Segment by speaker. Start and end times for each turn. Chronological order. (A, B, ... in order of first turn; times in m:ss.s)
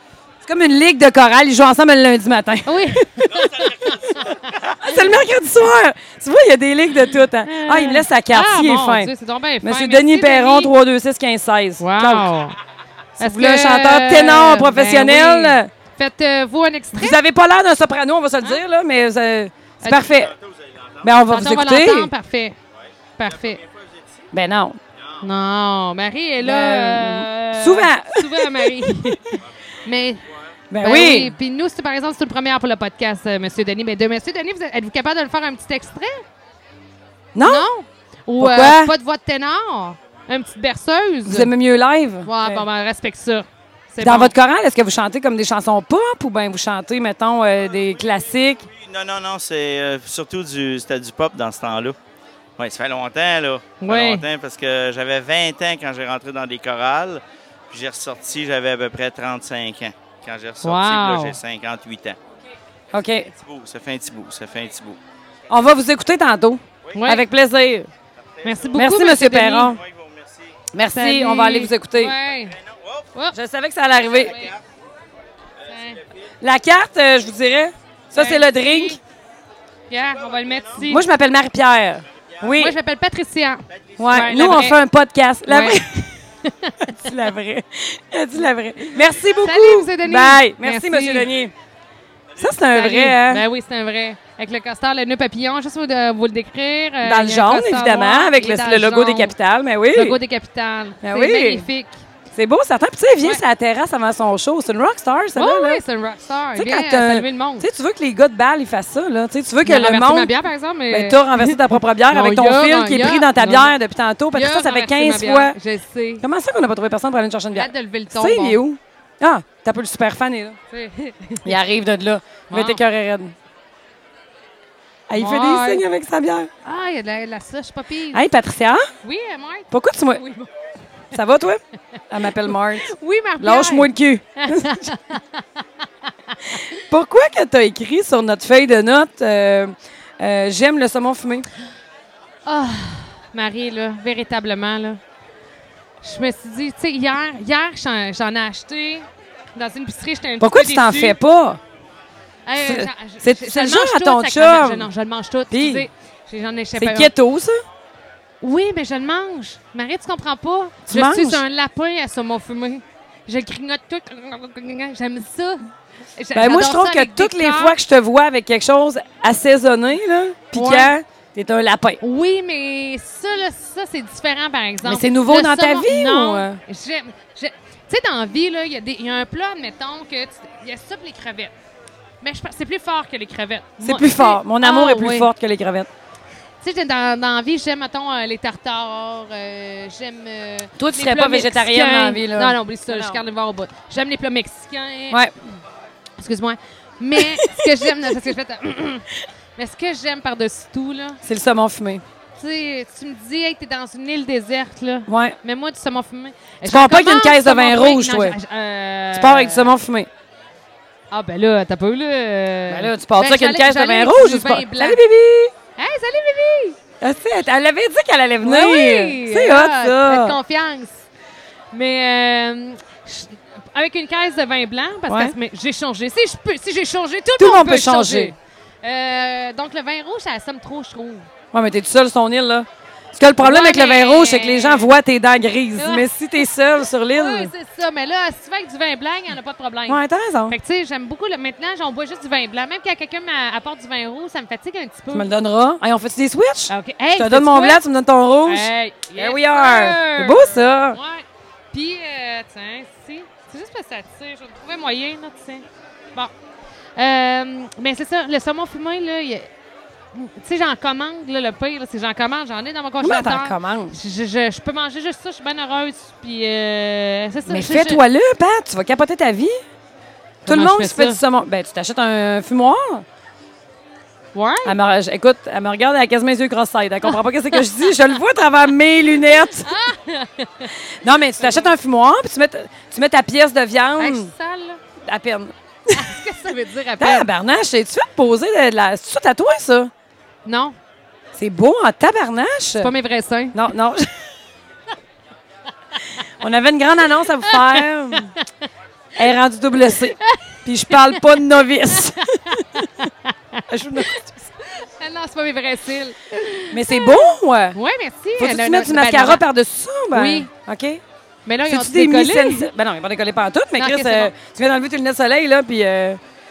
0:00.4-0:03.5 A
0:02.7-0:03.6 B
0:03.7-0:04.8 C
0:04.8-0:09.1 A
0:07.4-0:10.7 B
0:09.6-0:12.3 A
0:11.8-0:12.6 B
0:13.2-0:15.7 A
0:13.2-0:17.2 B
0:17.0-0:20.3 A
0:19.8-0:20.1 B
0:20.2-0:21.0 C
0:21.0-0:22.1 A
0:21.3-0:22.6 B
0:23.2-0:23.6 B
0:23.5-0:24.0 C
0:24.3-0:24.8 A
0:25.2-0:30.2 B
0:26.4-0:28.9 A
0:30.7-0:31.3 A
0:30.8-0:36.2 B
0:37.4-0:37.7 A
0:37.4-0:41.5 B
0:38.4-0:38.9 A
0:41.3-0:42.6 A
0:42.2-0:44.3 B
0:44.0-0:48.7 A
0:48.7-0:52.0 C
0:52.6-1:02.2 C
0:53.8-0:54.2 B
1:00.6-1:01.4 B
1:02.9-1:03.3 A
1:03.4-1:05.0 C
1:05.5-1:07.9 A
1:06.9-1:07.2 B
1:08.4-1:08.9 C
1:08.4-1:09.8 B
1:08.7-1:09.8 A
1:09.8-1:10.5 C
1:10.7-1:12.1 A
1:11.0-1:12.6 B
1:12.8-1:13.0 C
1:13.3-1:14.4 A
1:14.2-1:14.5 B
1:15.7-1:16.0 B
1:16.4-1:19.0 A
1:18.1-1:19.0 B
1:19.9-1:21.1 B
1:20.8-1:22.8 A
1:22.5-1:24.8 B
1:24.0-1:26.1 A
1:25.5-1:25.8 B
1:26.4-1:26.9 B
1:26.9-1:31.5 A
1:29.0-1:31.3 B
1:32.4-1:33.4 A
1:32.7-1:39.3 B
1:37.0-1:40.2 A
1:39.9-1:41.9 B
1:41.0-1:41.7 A
1:42.3-1:45.8 A
1:45.4-1:47.7 B
1:46.6-1:50.3 A
1:49.6-1:53.8 B
1:50.9-1:55.6 A
1:54.3-1:56.2 B
1:56.2-2:00.6 A
1:57.5-1:58.6 B
2:00.7-2:01.5 B
2:01.4-2:03.3 A
2:02.5-2:02.8 B
2:05.1-2:06.5 A
2:05.2-2:05.8 B
2:06.6-2:08.2 B
2:08.1-2:08.9 A
2:09.0-2:10.5 B
2:09.7-2:10.2 A
2:11.1-2:14.9 A
2:12.5-2:15.4 B
2:16.3-2:16.6 B
2:16.8-2:21.5 A
2:22.5-2:25.0 B
2:26.0-2:31.2 B
2:30.4-2:31.6 A
2:32.5-2:37.1 B
2:32.6-2:34.9 A
2:35.5-2:35.9 A
2:36.8-2:37.6 A
2:38.4-2:45.6 B
2:40.9-2:41.4 A
2:46.2-2:47.8 B
2:46.3-2:52.0 A
2:50.5-2:50.9 B
2:52.0-3:01.5 B
2:54.8-2:56.6 A
3:02.2-3:05.3 B
3:03.8-3:05.9 A
3:06.6-3:15.2 B
3:10.8-3:13.2 A
3:16.2-3:21.2 B
3:17.2-3:17.7 A
3:21.2-3:22.0 A
3:22.4-3:29.7 B
3:25.1-3:25.4 A
3:26.6-3:28.4 A
3:29.1-3:30.1 A
3:31.1-3:35.0 B
3:32.7-3:35.5 A
3:35.8-3:36.8 B
3:37.0-3:40.4 A
3:38.4-3:41.0 B
3:41.7-3:51.3 B
3:45.1-3:45.3 A
3:47.4-3:48.3 A
3:51.5-3:57.5 A
3:53.4-3:54.9 B
3:55.8-3:56.1 B
3:57.1-4:05.3 B
3:59.9-4:00.6 A
4:05.1-4:11.0 A
4:06.7-4:07.8 B
4:08.4-4:16.3 B
4:17.0-4:19.5 B
4:20.1-4:28.0 B
4:23.0-4:24.0 A
4:27.5-4:29.6 A
4:30.4-4:33.0 A
4:30.5-4:31.2 B
4:34.3-4:34.7 B
4:34.6-4:39.7 A
4:39.4-4:40.7 B
4:41.0-4:44.3 A
4:41.4-4:41.7 B
4:44.0-4:44.8 B
4:45.0-4:46.1 A
4:46.0-4:47.3 B
4:47.0-4:49.9 A
4:50.4-4:50.8 B
4:51.4-4:52.9 A
4:52.8-4:53.6 B
4:53.5-4:54.1 A
4:56.4-4:58.3 A
4:57.5-4:58.5 B
4:59.2-5:02.8 A
5:00.2-5:01.2 B
5:01.9-5:09.5 B
5:03.7-5:04.3 A
5:06.7-5:07.8 A
5:08.4-5:11.0 A
5:10.1-5:10.5 B
5:11.5-5:12.7 B
5:11.7-5:16.2 A
5:13.8-5:14.3 B